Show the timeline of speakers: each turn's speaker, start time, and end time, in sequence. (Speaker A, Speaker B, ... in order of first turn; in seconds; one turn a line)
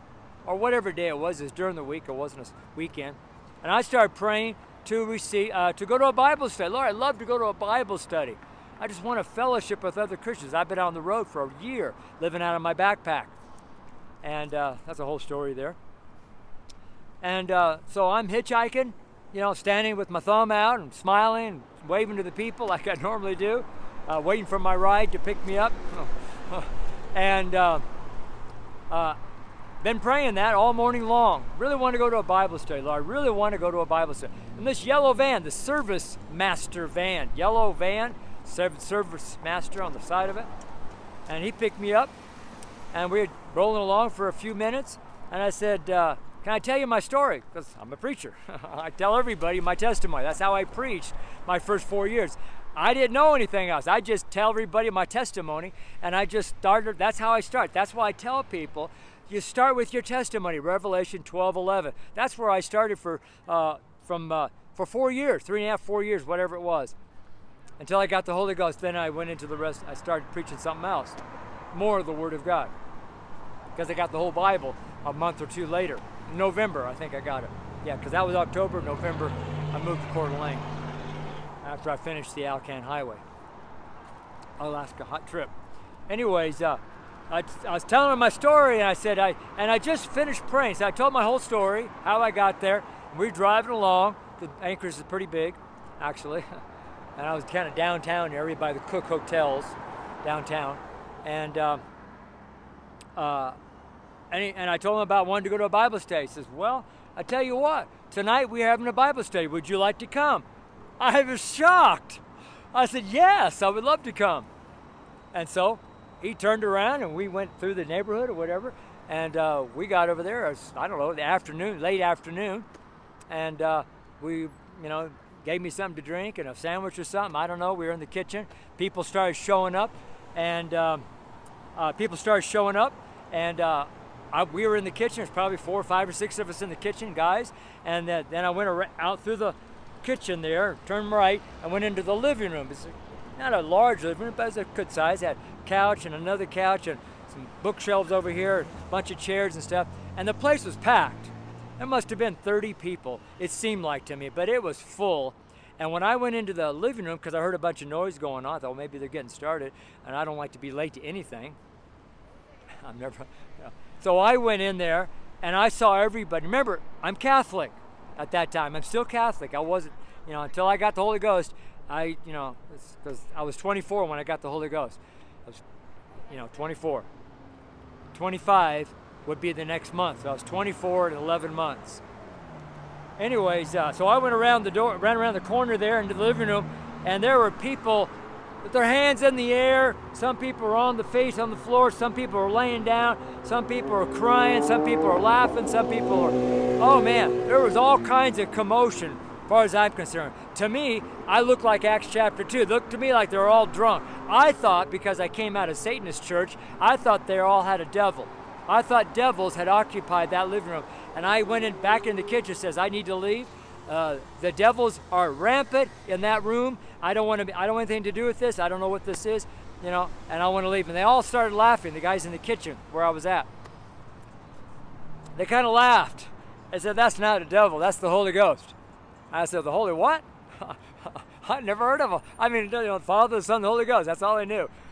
Speaker A: 0.4-13.3
Speaker A: 14.2-15.8
Speaker A: 17.2-27.8
Speaker A: 28.9-29.2
Speaker A: 29.8-40.5
Speaker A: 41.3-42.1
Speaker A: 42.9-67.0
Speaker A: 67.8-71.2
Speaker A: 71.7-72.7
Speaker A: 73.7-80.6
Speaker A: 81.6-83.2
Speaker A: 84.6-85.5
Speaker A: 86.1-96.5
Speaker A: 97.2-101.8
Speaker A: 103.2-103.6
Speaker A: 104.3-110.5
Speaker A: 111.0-112.2
Speaker A: 112.7-114.5
Speaker A: 115.3-122.7
Speaker A: 123.3-131.1
Speaker A: 131.8-161.6
Speaker A: 162.8-175.6
Speaker A: 176.3-177.1
Speaker A: 178.1-182.0
Speaker A: 183.2-188.1
Speaker A: 188.6-223.5
Speaker A: 225.3-228.7
Speaker A: 229.3-234.7